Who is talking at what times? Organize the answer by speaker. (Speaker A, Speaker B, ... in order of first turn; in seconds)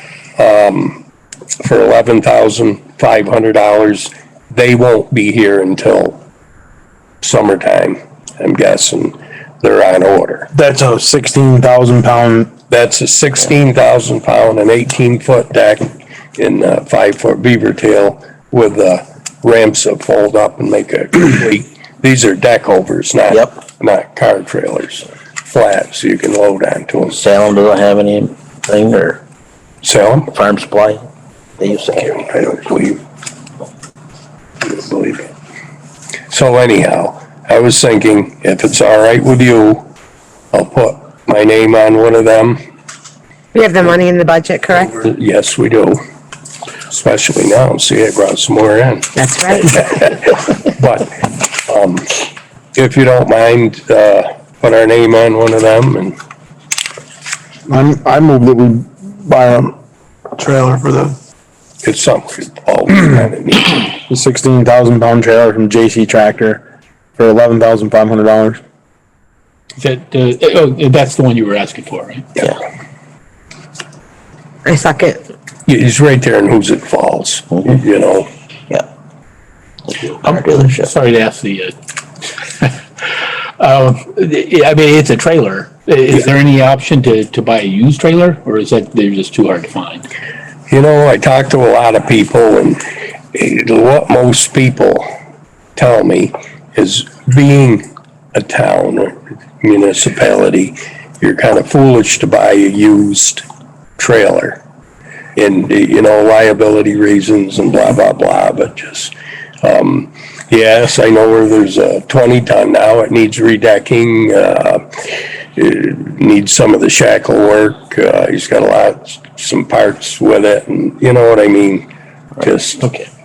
Speaker A: 0.4-1.0, 1.6-6.2, 7.2-10.5, 12.7-27.2, 29.8-30.3, 31.9-33.0, 34.6-35.3, 36.3-39.9, 40.5-42.6, 44.9-46.0, 46.9-52.2, 52.8-56.2, 61.8-63.9, 75.7-78.3, 90.7-92.8, 93.3-95.1, 95.8-103.4, 104.0-104.6, 105.4-114.8, 115.6-121.9, 122.4-122.8
Speaker B: 10.5-12.5, 57.7-59.8, 60.4-61.2, 64.1-66.6, 67.2-68.6
Speaker C: 23.3-23.6, 27.1-29.2, 30.3-31.1, 31.6-32.2, 79.9-80.9
Speaker D: 43.5-45.0, 49.2-49.8, 74.7-75.2
Speaker E: 69.8-72.4, 80.2-81.8, 83.6-90.1, 122.8-123.1